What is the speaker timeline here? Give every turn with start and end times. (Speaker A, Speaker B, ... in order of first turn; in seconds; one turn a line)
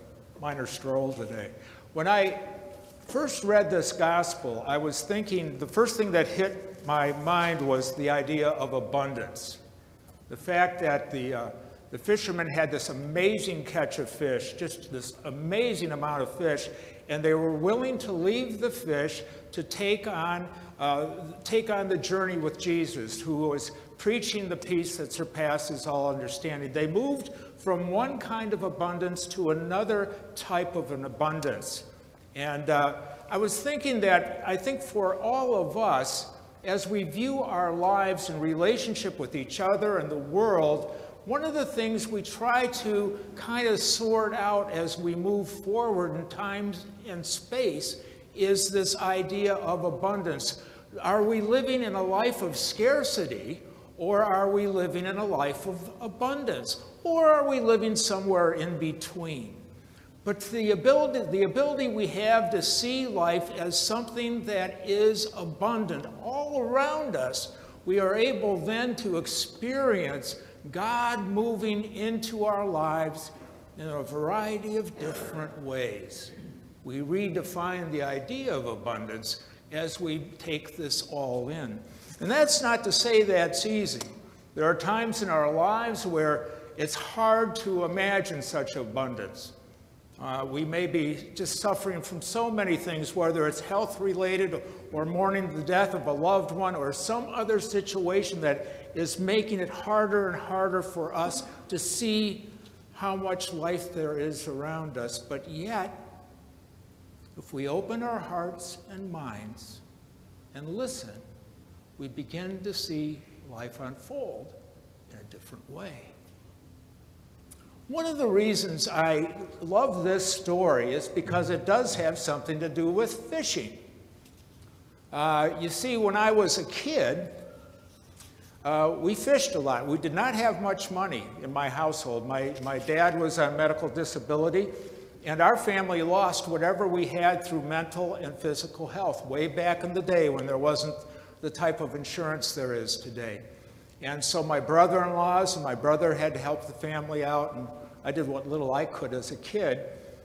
Speaker A: 0.4-2.5
Speaker A: 3.0-9.6
Speaker A: 10.3-59.6
Speaker A: 60.2-89.5
Speaker A: 90.2-106.0
Speaker A: 107.3-109.8
Speaker A: 110.5-111.2
Speaker A: 112.0-114.5
Speaker A: 115.1-116.1
Speaker A: 117.9-123.8
Speaker A: 125.1-127.3
Speaker A: 128.6-143.4
Speaker A: 144.0-149.9